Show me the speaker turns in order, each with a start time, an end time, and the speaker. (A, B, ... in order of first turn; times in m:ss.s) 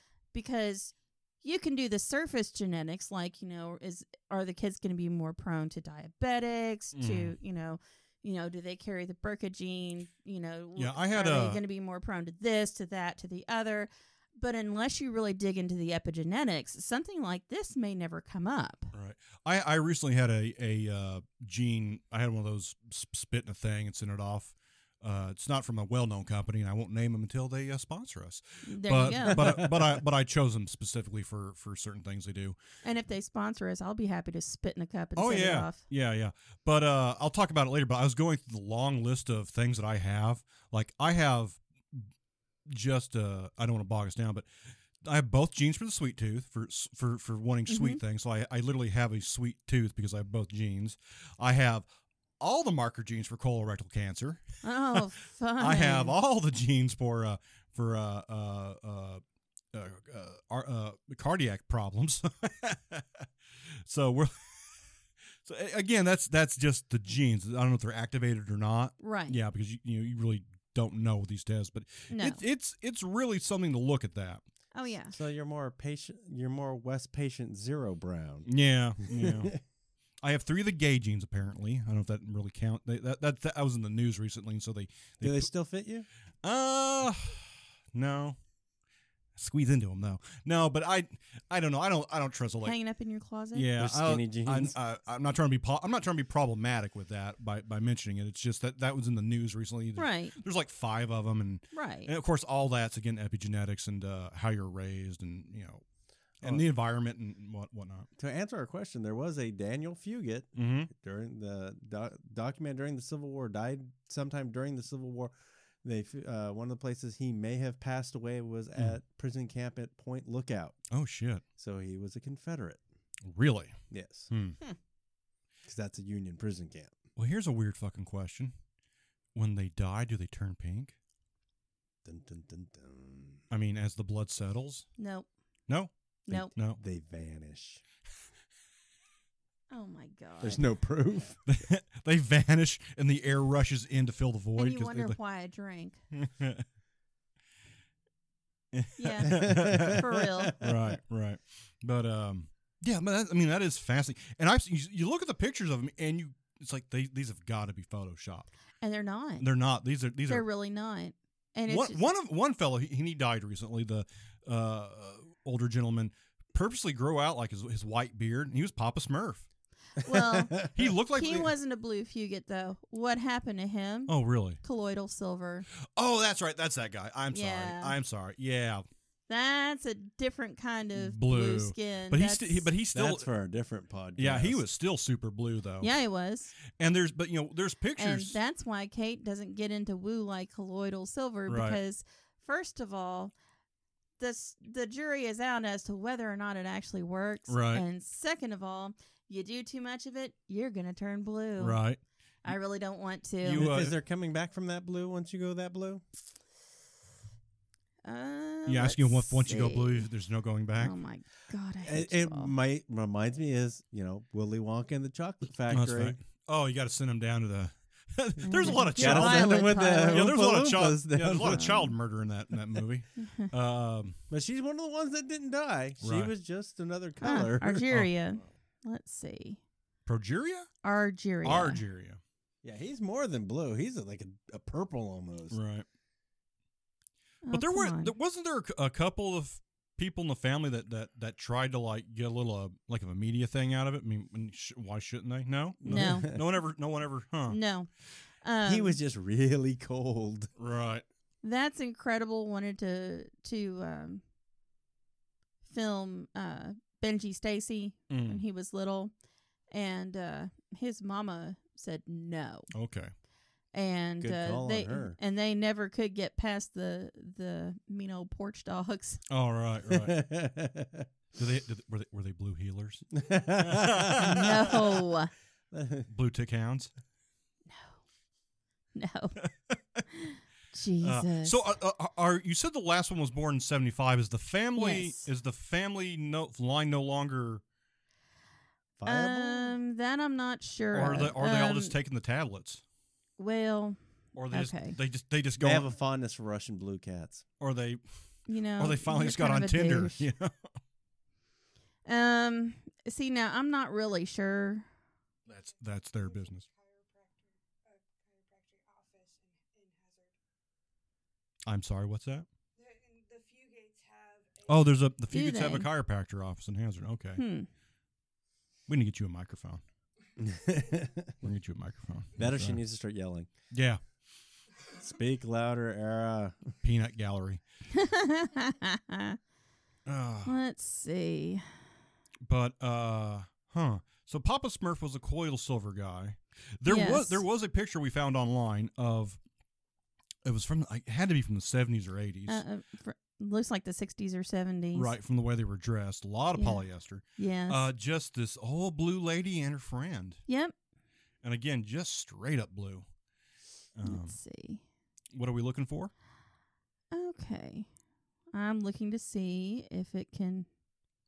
0:00.3-0:18.9 A
0:06.9-0:07.3 B
0:10.8-0:11.6 B
0:18.9-0:32.6 B
0:28.6-0:29.6 A
0:29.3-0:30.0 C
0:32.8-0:35.8 A
0:35.2-0:42.1 B
0:42.7-0:44.4 B
0:45.0-0:51.8 B
0:47.7-0:48.0 A
0:52.4-0:55.0 B
0:54.6-0:56.1 A
0:55.6-0:59.2 B
0:59.7-1:04.8 B
1:05.4-1:14.4 B
1:09.0-1:09.4 A
1:12.1-1:12.4 A
1:14.7-1:15.2 A
1:15.1-1:18.5 C
1:18.4-1:19.5 B
1:19.0-1:19.6 C
1:20.2-1:25.5 B
1:25.2-1:26.1 C
1:26.4-1:28.4 B
1:29.4-1:32.8 B
1:32.6-1:33.7 A
1:33.5-1:45.8 B
1:33.8-1:34.7 C
1:40.0-1:40.4 A
1:41.7-1:42.1 A
1:46.4-1:48.1 B
1:48.2-2:00.8 C
1:50.5-1:50.9 B
2:00.9-2:01.4 B
2:01.6-2:02.8 C
2:03.2-2:04.6 B
2:03.9-2:04.3 C
2:05.6-2:07.0 C
2:07.2-2:08.5 B
2:09.3-2:10.9 B
2:12.0-2:13.4 C
2:13.5-2:14.9 B
2:15.0-2:15.3 A
2:15.7-2:16.8 B
2:16.3-2:17.8 C
2:19.7-2:20.6 A
2:20.4-2:21.4 C
2:21.4-2:25.2 B
2:24.6-2:26.0 A
2:26.1-2:26.6 B
2:28.7-2:38.5 B
2:29.0-2:30.6 A
2:29.2-2:30.9 C
2:38.8-2:39.5 A
2:39.4-2:40.4 B
2:40.3-2:42.0 A
2:41.7-2:49.4 B
2:50.0-2:50.6 A
2:50.0-2:50.9 C
2:50.7-2:51.5 B
2:51.1-2:55.6 A
2:54.1-2:54.6 B
2:56.0-2:58.8 B
2:57.3-2:57.9 A
2:59.3-3:02.7 A
3:00.9-3:03.3 B
3:02.9-3:04.6 C
3:04.2-3:05.9 B
3:05.8-3:06.5 A
3:06.7-3:08.4 B
3:08.0-3:13.3 A
3:11.5-3:11.8 B
3:14.2-3:21.8 A
3:17.5-3:17.8 B
3:21.6-3:22.0 B
3:22.4-3:23.7 A
3:23.4-3:24.0 B
3:23.5-3:26.0 C
3:28.0-3:30.1 A
3:28.7-3:30.9 B
3:30.8-3:32.5 A
3:31.8-3:36.2 C
3:35.7-3:44.2 B
3:38.4-3:40.3 A
3:38.6-3:41.9 C
3:43.2-3:43.5 A
3:44.3-3:47.9 C
3:46.0-3:46.3 B
3:47.2-3:49.6 A
3:50.0-3:50.7 B
3:50.8-3:51.8 A
3:51.4-3:52.2 B
3:52.6-3:55.6 C
3:55.5-3:55.8 B
3:57.4-3:58.1 A
3:57.5-4:07.6 B
4:05.8-4:06.4 C
4:05.8-4:06.3 A
4:07.5-4:07.9 A
4:08.4-4:09.0 A
4:08.6-4:10.5 C
4:10.6-4:11.0 B
4:11.4-4:14.2 A
4:15.6-4:19.1 A
4:18.1-4:18.4 B
4:19.7-4:22.7 A
4:22.7-4:23.1 B
4:23.7-4:29.2 A
4:24.2-4:25.2 C
4:29.3-4:30.2 B
4:29.9-4:31.1 C
4:31.3-4:34.8 B
4:33.1-4:34.9 C
4:34.2-4:35.3 A
4:35.7-4:36.1 C
4:36.1-4:36.9 B
4:37.7-4:38.0 A
4:38.9-4:39.3 A
4:39.4-4:40.0 B
4:40.1-4:41.5 A
4:41.0-4:47.6 B
4:44.8-4:45.3 A
4:49.0-4:49.8 C
4:49.0-4:51.9 A
4:50.9-4:52.8 B
4:53.4-4:54.0 A
4:54.4-4:55.9 B
4:54.5-4:55.0 A
4:55.6-4:57.4 C
4:57.6-4:58.0 B
4:58.5-5:00.2 A
4:58.8-5:00.5 B
5:02.0-5:04.9 A
5:05.5-5:10.3 D
5:05.5-5:06.6 B
5:11.6-5:12.4 B
5:12.8-5:15.0 D
5:14.6-5:17.4 B
5:15.3-5:15.9 A
5:17.4-5:17.7 A
5:18.9-5:19.8 B
5:20.4-5:21.4 C
5:21.4-5:22.8 B
5:22.4-5:23.5 C
5:23.7-5:24.0 B
5:24.9-5:26.7 C
5:26.8-5:27.6 B
5:27.9-5:29.4 A
5:30.0-5:30.5 B
5:30.4-5:31.6 A
5:32.4-5:39.4 B
5:36.8-5:37.4 A
5:40.4-5:42.6 B
5:42.5-5:45.1 A
5:44.9-5:50.4 B
5:46.6-5:46.8 A
5:47.4-5:47.8 A
5:50.5-5:50.7 A
5:51.4-5:53.0 B
5:53.9-5:54.4 B
5:54.0-5:54.8 A
5:55.3-5:56.1 B
5:57.1-5:57.9 A
5:58.5-6:00.7 A